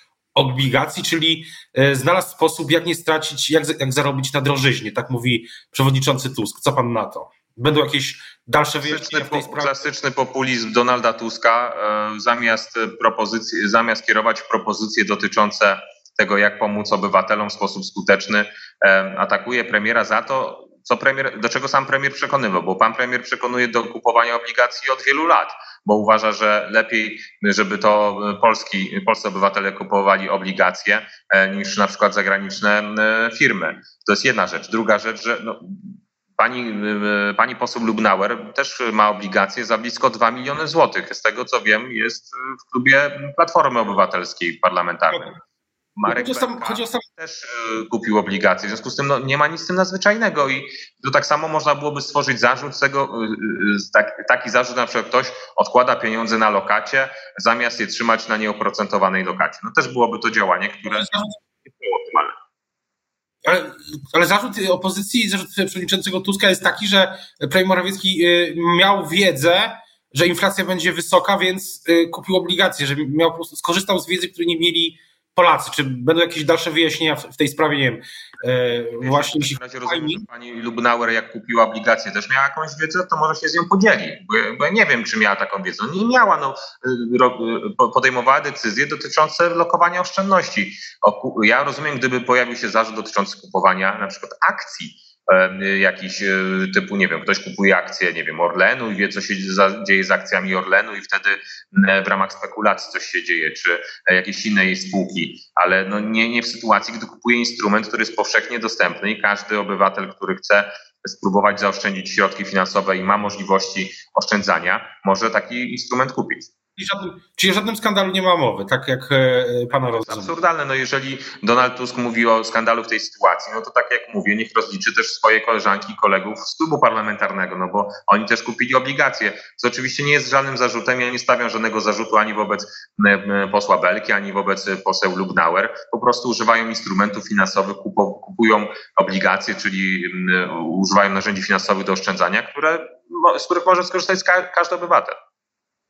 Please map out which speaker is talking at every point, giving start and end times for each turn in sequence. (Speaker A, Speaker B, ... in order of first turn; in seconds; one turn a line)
Speaker A: 0.3-9.8
Speaker B: 8.8-45.3
Speaker B: 46.0-61.1
Speaker A: 46.1-47.0
Speaker A: 60.9-61.4
Speaker B: 61.6-62.3
Speaker A: 63.4-80.2
Speaker B: 79.0-116.5
Speaker A: 116.8-120.3
Speaker B: 120.0-145.1